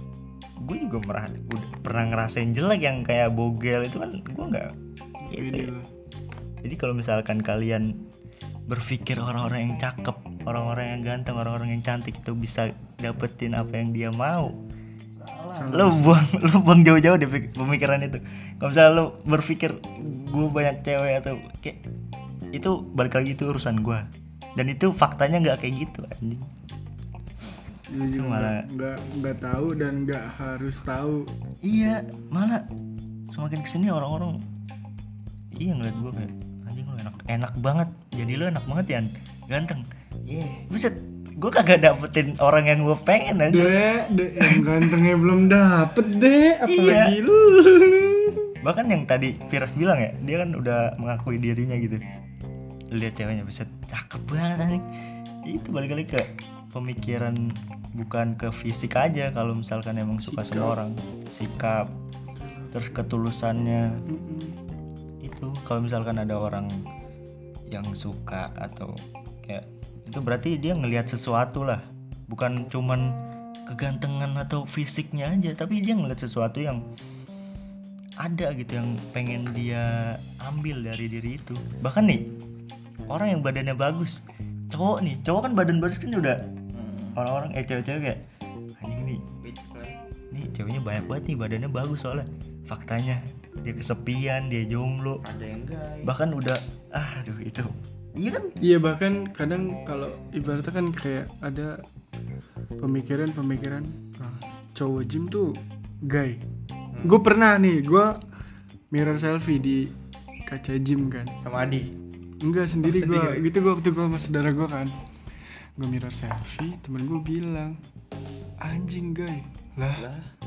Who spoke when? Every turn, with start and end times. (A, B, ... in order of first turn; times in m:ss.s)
0:00.6-0:04.7 A
0:05.2-0:05.9 B
0:05.3-0:05.7 A
0:06.6-0:07.9 A
0:08.7-0:14.6 A
0:15.2-0:15.9 C
0:15.6-0:16.2 B
0:15.7-0:21.8 A
0:22.5-0:24.0 A
0:24.6-0:26.5 A
0:27.9-0:31.3 B
0:28.0-0:28.5 A
0:31.6-0:32.6 A
0:33.3-0:34.4 A
0:35.6-0:39.8 A
0:40.3-0:40.6 C
0:40.7-0:43.8 A
0:43.5-0:48.5 B
0:44.4-0:44.6 A
0:46.7-0:47.1 A
0:48.6-0:52.0 A
0:52.9-0:54.8 A
0:55.4-0:57.4 A
0:58.0-1:01.9 A
1:00.2-1:00.8 B
1:02.4-1:02.8 B
1:02.7-1:03.8 A
1:04.1-1:04.6 B
1:05.2-1:06.7 A
1:07.7-1:13.1 A
1:13.7-1:16.8 A
1:18.2-1:22.2 A
1:23.1-1:24.2 A
1:24.7-1:26.4 A
1:26.7-1:27.2 C
1:27.2-1:28.2 A
1:28.8-1:29.2 A
1:29.4-1:30.0 C
1:30.3-1:35.2 A
1:35.2-1:36.1 C
1:36.0-1:38.5 A
1:38.6-1:41.8 B
1:42.8-1:46.4 B
1:46.9-1:47.2 C
1:47.0-1:48.2 B
1:48.9-1:49.9 B
1:50.5-1:51.4 B
1:51.4-1:51.9 C
1:52.4-1:54.9 B
1:52.8-1:53.4 C
1:55.8-1:57.8 B
1:58.6-2:00.1 B
2:00.0-2:00.3 C